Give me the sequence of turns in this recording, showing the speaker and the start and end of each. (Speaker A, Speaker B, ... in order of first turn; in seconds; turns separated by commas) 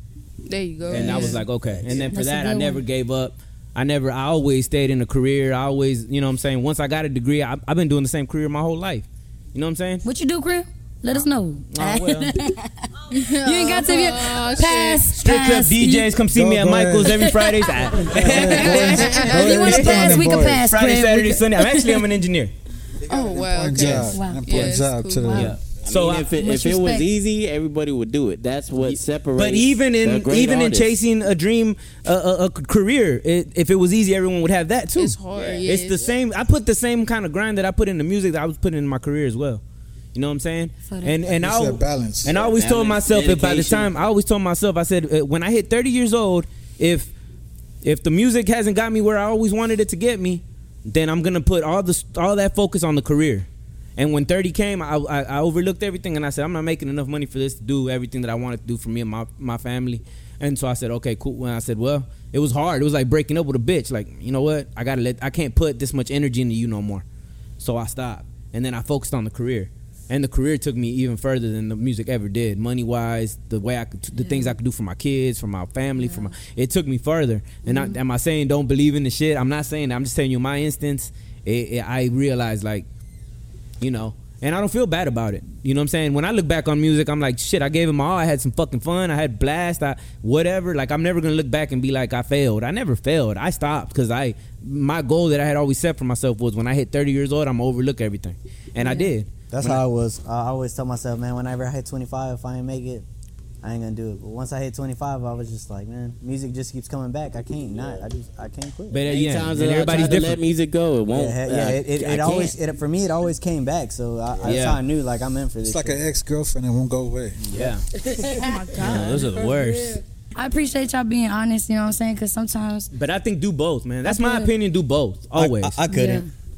Speaker A: 0.5-1.4, Speaker B: 0.9-10.0, Speaker C: 0.9-1.4, Speaker D: 1.6-2.1, Speaker C: 1.9-2.8, Speaker C: 10.0-16.1, Speaker B: 11.1-12.3, Speaker A: 13.1-15.1, Speaker B: 15.2-22.5, Speaker E: 16.3-17.2, Speaker C: 17.1-22.0, Speaker E: 18.1-20.6, Speaker A: 18.4-19.9, Speaker E: 23.0-25.6, Speaker A: 23.1-25.4, Speaker B: 23.8-24.8, Speaker C: 24.1-25.6, Speaker B: 25.3-26.3, Speaker F: 25.8-31.0, Speaker C: 26.4-27.1, Speaker B: 28.8-39.6, Speaker A: 35.0-36.1, Speaker F: 35.3-35.7, Speaker B: 40.1-47.1, Speaker C: 40.9-41.1, Speaker E: 41.2-42.4, Speaker F: 42.3-43.9, Speaker B: 47.8-67.0, Speaker B: 67.6-82.8, Speaker C: 74.2-74.5, Speaker C: 76.0-76.3, Speaker C: 77.7-78.0, Speaker B: 83.8-99.8, Speaker C: 98.8-99.1, Speaker D: 99.5-103.0, Speaker D: 103.6-109.1, Speaker B: 108.9-110.4, Speaker F: 109.0-112.5, Speaker D: 111.1-116.0, Speaker B: 114.4-114.8, Speaker E: 115.6-117.4, Speaker B: 117.5-117.8, Speaker C: 118.0-118.6, Speaker A: 118.2-119.4, Speaker B: 118.8-120.0, Speaker C: 119.4-122.9, Speaker B: 122.9-125.8, Speaker C: 124.0-124.5, Speaker D: 125.3-126.2, Speaker C: 125.9-126.3